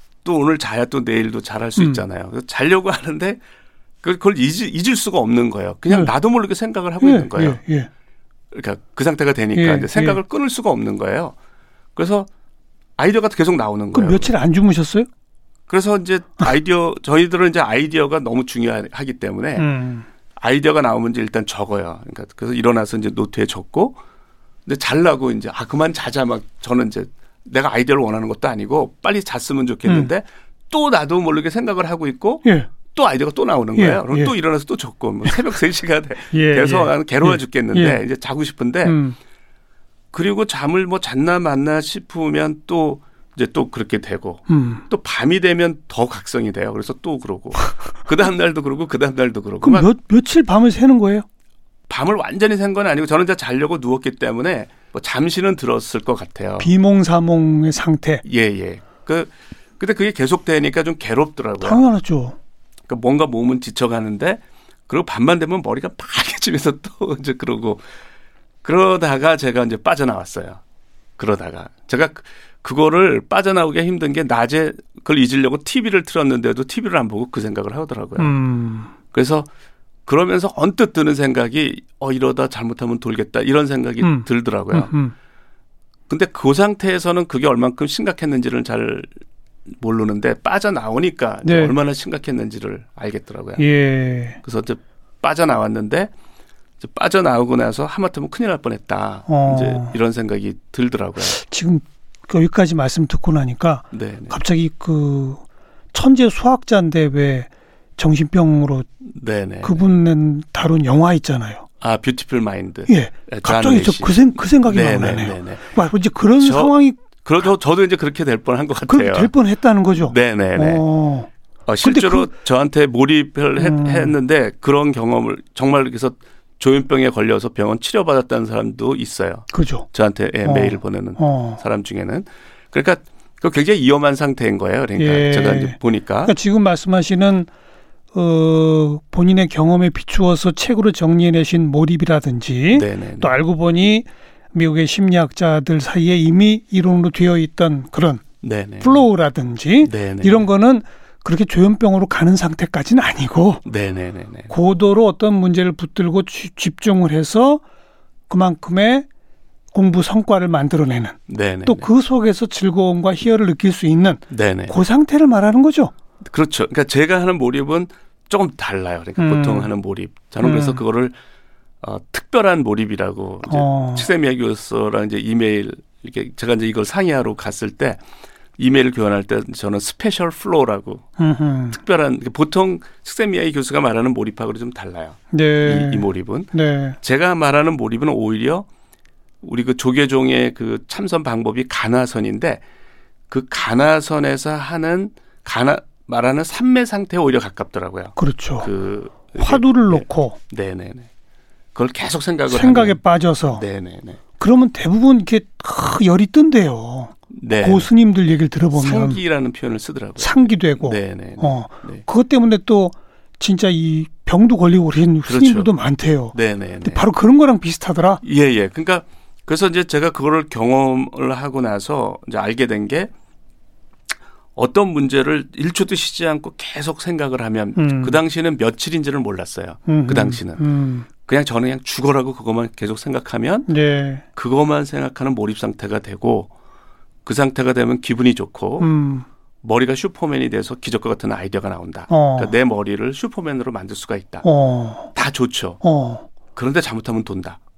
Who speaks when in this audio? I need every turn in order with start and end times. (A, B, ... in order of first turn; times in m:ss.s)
0:00.2-0:03.4 A
0:01.8-0:02.0 B
0:04.0-0:07.6 A
0:07.0-0:07.9 B
0:08.5-0:11.3 A
0:09.5-0:10.2 B
0:11.9-0:12.3 A
0:13.0-0:14.3 A
0:13.9-0:15.1 B
0:15.7-0:19.7 A
0:19.6-0:20.1 B
0:20.4-0:24.0 A
0:24.6-0:39.0 A
0:32.4-0:32.7 B
0:33.8-0:34.3 B
0:36.3-0:38.0 B
0:38.8-0:39.2 B
0:40.1-0:49.9 A
0:44.5-0:44.8 B
0:49.6-0:51.2 B
0:51.9-0:56.7 A
0:56.6-0:58.2 B
0:58.2-1:01.8 A
1:01.6-1:02.4 B
1:02.9-1:07.8 A
1:08.6-1:10.6 A
1:11.2-1:18.3 A
1:18.2-1:18.9 B
1:19.1-1:19.5 A
1:20.0-1:24.9 A
1:24.0-1:25.1 B
1:26.1-1:29.1 A
1:29.7-1:33.7 A
1:31.4-1:31.8 B
1:33.6-1:34.4 B
1:34.4-1:36.1 A
1:36.8-1:41.4 A
1:39.3-1:40.0 B
1:41.3-1:45.4 B
1:43.9-1:44.3 A
1:45.9-1:48.9 B
1:49.1-1:49.9 A
1:49.6-1:51.6 B
1:51.8-1:55.6 A
1:52.9-1:57.0 B
1:56.4-1:59.3 A
1:58.9-2:01.3 B
2:00.0-2:00.8 A
2:01.6-2:16.3 A
2:01.8-2:02.3 B
2:03.6-2:04.1 B
2:09.5-2:09.9 B
2:10.4-2:11.6 B
2:15.0-2:17.5 B
2:18.1-2:28.2 B
2:22.7-2:23.4 A
2:28.4-2:29.0 A
2:28.8-2:33.6 B
2:29.8-2:30.4 A
2:33.6-2:34.5 A
2:34.5-2:37.6 B
2:38.3-2:39.0 B
2:39.7-2:45.9 B
2:41.3-2:41.9 A
2:44.3-2:44.7 A
2:46.2-2:51.2 A
2:49.2-2:49.7 B
2:50.4-2:50.8 B
2:51.8-2:58.0 A
2:53.5-2:54.1 B
2:58.6-3:01.0 A
3:01.2-3:01.8 B
3:01.7-3:08.7 A
3:05.3-3:07.0 B
3:09.4-3:12.6 A
3:13.3-3:21.1 A
3:18.2-3:18.7 B
3:19.3-3:20.4 B
3:21.7-3:23.0 A
3:22.5-3:23.6 B
3:23.5-3:24.2 A
3:24.4-3:29.2 B
3:27.3-3:27.9 A
3:28.7-3:32.0 A
3:30.2-3:38.2 B
3:35.3-3:35.7 A
3:36.3-3:37.1 A
3:38.2-3:43.1 A
3:44.6-3:50.6 A
3:47.8-3:48.2 B
3:49.9-3:51.1 B
3:51.2-3:53.7 A
3:53.7-3:54.2 B
3:54.3-3:56.5 A
3:57.2-3:58.9 A
3:58.8-3:59.2 B
3:59.6-4:04.4 A
4:02.1-4:02.5 B
4:04.4-4:05.1 B
4:05.1-4:05.8 A
4:05.8-4:06.3 B
4:06.5-4:07.6 A